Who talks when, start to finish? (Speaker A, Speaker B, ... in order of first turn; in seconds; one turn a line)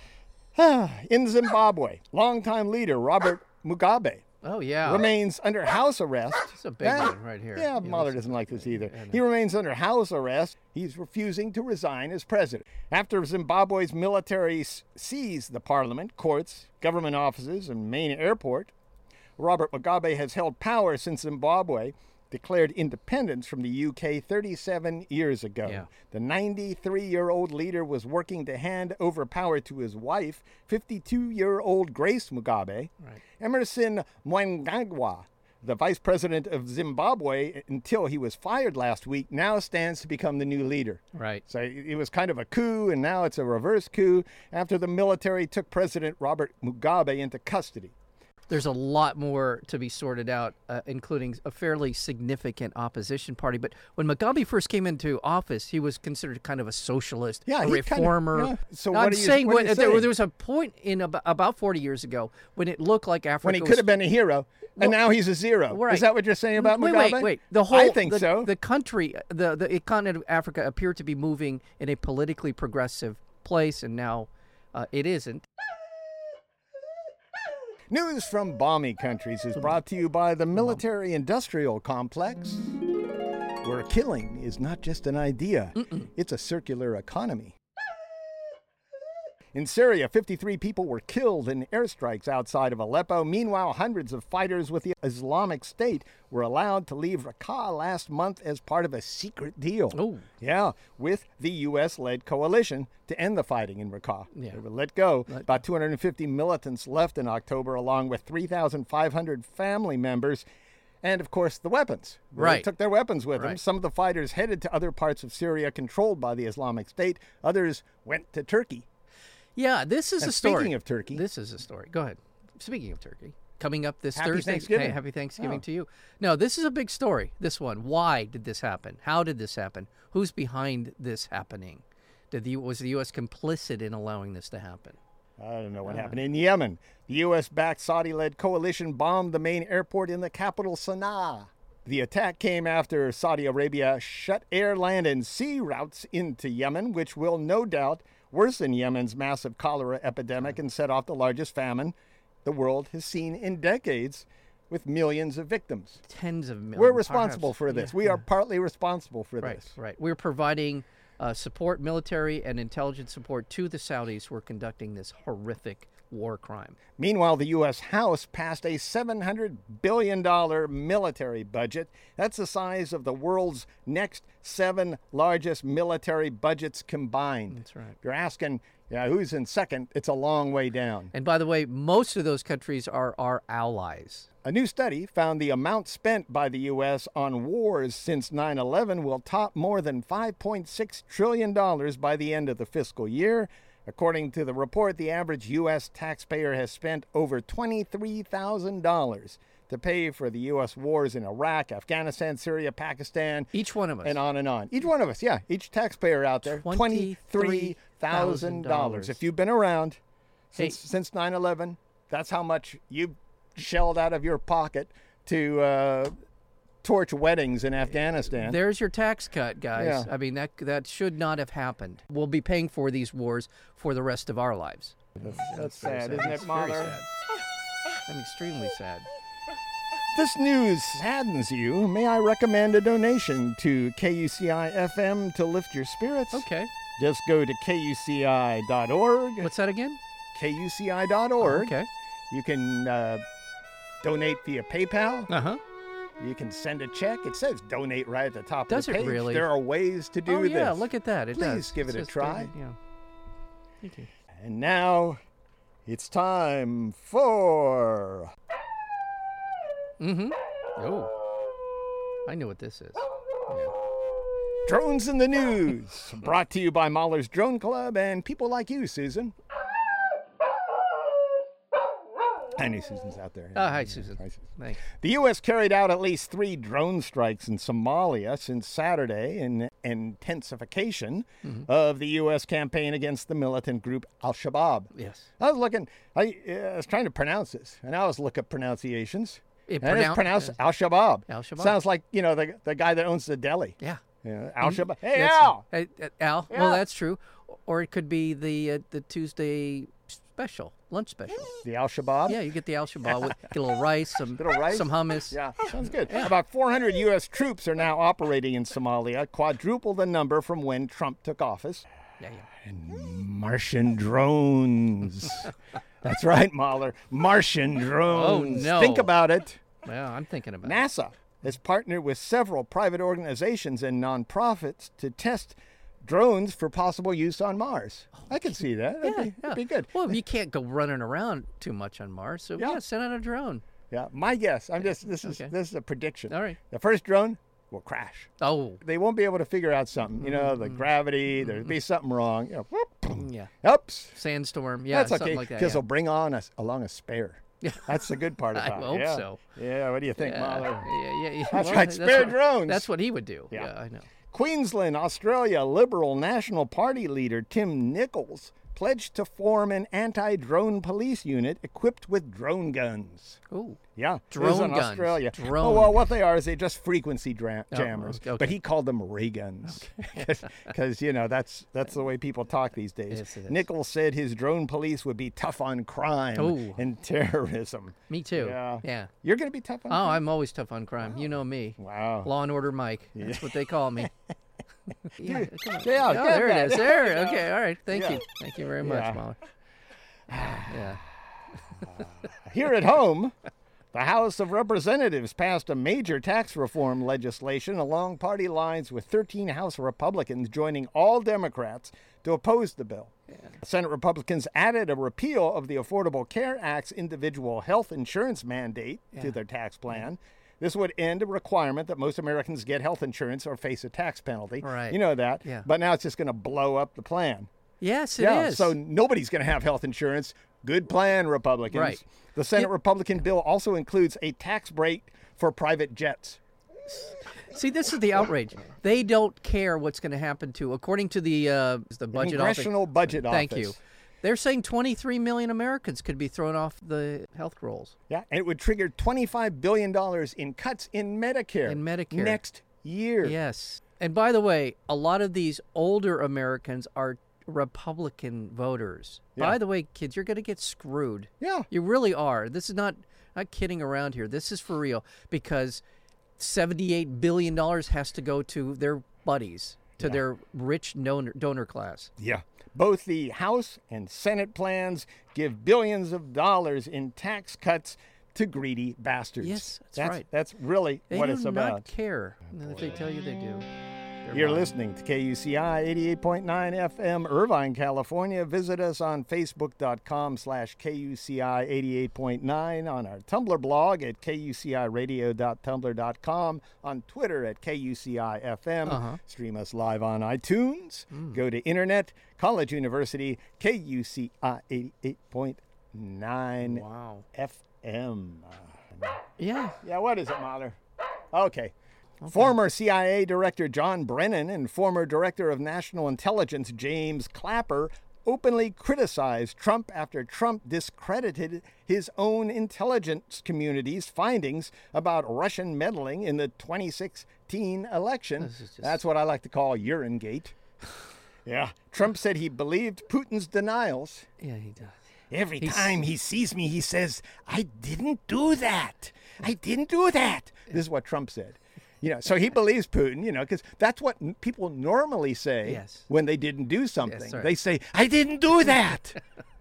Speaker A: 0.5-4.2
Speaker B: 4.4-5.1
Speaker A: 4.8-18.7
Speaker B: 6.5-9.2
Speaker A: 19.4-47.9
Speaker B: 41.1-41.4
Speaker B: 48.5-63.9
Speaker A: 57.5-60.1
Speaker A: 63.4-68.5
Speaker B: 65.7-75.4
Speaker A: 77.9-82.8
Speaker A: 83.6-87.6
Speaker A: 89.5-110.4
Speaker B: 99.9-100.3
Speaker B: 104.3-104.6
Speaker A: 111.0-118.8
Speaker B: 112.4-112.7
Speaker B: 119.5-135.0
Speaker A: 120.2-121.2
Speaker A: 124.1-125.6
Speaker A: 135.4-156.0
Speaker B: 135.9-136.1
Speaker B: 156.1-158.2
Speaker A: 156.7-159.7
Speaker B: 159.4-166.8
Speaker A: 167.0-181.1
Speaker B: 177.5-177.9
Speaker B: 181.1-184.3
Speaker A: 184.4-203.5
Speaker B: 203.5-204.2
Speaker A: 204.0-210.0
Speaker B: 206.5-209.2
Speaker A: 210.5-216.1
Speaker A: 216.8-218.6
Speaker B: 218.3-227.1
Speaker A: 219.8-220.1
Speaker A: 225.2-227.0
Speaker B: 228.1-229.1
Speaker A: 230.1-236.4
Speaker B: 236.3-236.7
Speaker A: 237.0-239.5
Speaker B: 239.4-240.0
Speaker A: 240.3-241.7
Speaker B: 241.4-241.9
Speaker A: 242.3-243.2
Speaker A: 244.0-245.3
Speaker B: 245.3-245.6
Speaker A: 246.2-252.5
Speaker B: 248.7-249.5
Speaker B: 250.2-252.8
Speaker B: 253.8-254.1
Speaker A: 254.4-255.2
Speaker A: 255.8-258.3
Speaker B: 260.0-261.1
Speaker B: 262.2-263.7
Speaker A: 264.6-269.3
Speaker A: 272.5-295.6
Speaker B: 273.5-274.8
Speaker B: 284.9-285.3
Speaker B: 289.7-290.6
Speaker B: 291.3-291.8
Speaker B: 294.6-301.5
Speaker A: 296.5-296.8
Speaker A: 301.6-302.4
Speaker B: 302.3-305.4
Speaker A: 304.4-311.9
Speaker B: 312.2-312.4
Speaker A: 312.6-319.6
Speaker B: 318.1-319.1
Speaker B: 319.8-320.8
Speaker A: 320.6-330.1
Speaker B: 329.0-333.6
Speaker A: 333.9-344.1
Speaker B: 334.8-335.5
Speaker B: 336.3-336.6
Speaker B: 338.4-338.8
Speaker B: 340.2-340.8
Speaker B: 343.1-343.5
Speaker B: 344.1-345.8
Speaker A: 344.9-350.9
Speaker B: 347.6-347.9
Speaker B: 348.5-349.4
Speaker B: 350.2-354.1
Speaker A: 351.5-352.9
Speaker A: 354.3-363.4
Speaker B: 363.5-366.0
Speaker A: 363.9-380.2
Speaker B: 367.7-368.5
Speaker B: 369.7-370.2
Speaker B: 373.1-373.6
Speaker B: 376.4-376.8
Speaker B: 378.1-379.1
Speaker B: 379.9-384.1
Speaker A: 381.8-382.3
Speaker A: 383.1-384.1
Speaker B: 385.1-389.4
Speaker A: 385.2-388.2
Speaker A: 388.8-389.2
Speaker A: 390.3-390.8
Speaker B: 390.4-391.0
Speaker A: 391.8-393.3
Speaker A: 393.9-417.5
Speaker B: 414.6-415.6
Speaker B: 417.8-418.8
Speaker A: 418.2-426.4
Speaker B: 421.7-422.0
Speaker B: 426.9-437.9
Speaker A: 432.1-433.8
Speaker A: 438.1-443.4
Speaker B: 441.7-442.4
Speaker B: 443.2-455.8
Speaker A: 451.4-451.7
Speaker B: 456.4-462.1
Speaker A: 462.2-471.9
Speaker B: 469.4-470.2
Speaker B: 471.1-473.6
Speaker B: 474.2-474.7
Speaker A: 474.3-499.2
Speaker B: 488.9-489.2
Speaker B: 496.6-497.2
Speaker B: 499.4-499.8
Speaker A: 499.8-500.8
Speaker A: 501.3-501.7
Speaker B: 502.2-502.5
Speaker A: 502.3-520.5
Speaker B: 518.4-518.9
Speaker A: 521.5-524.3
Speaker B: 524.4-524.9
Speaker A: 525.3-539.2
Speaker B: 525.6-526.0
Speaker B: 535.6-536.0
Speaker B: 537.0-537.5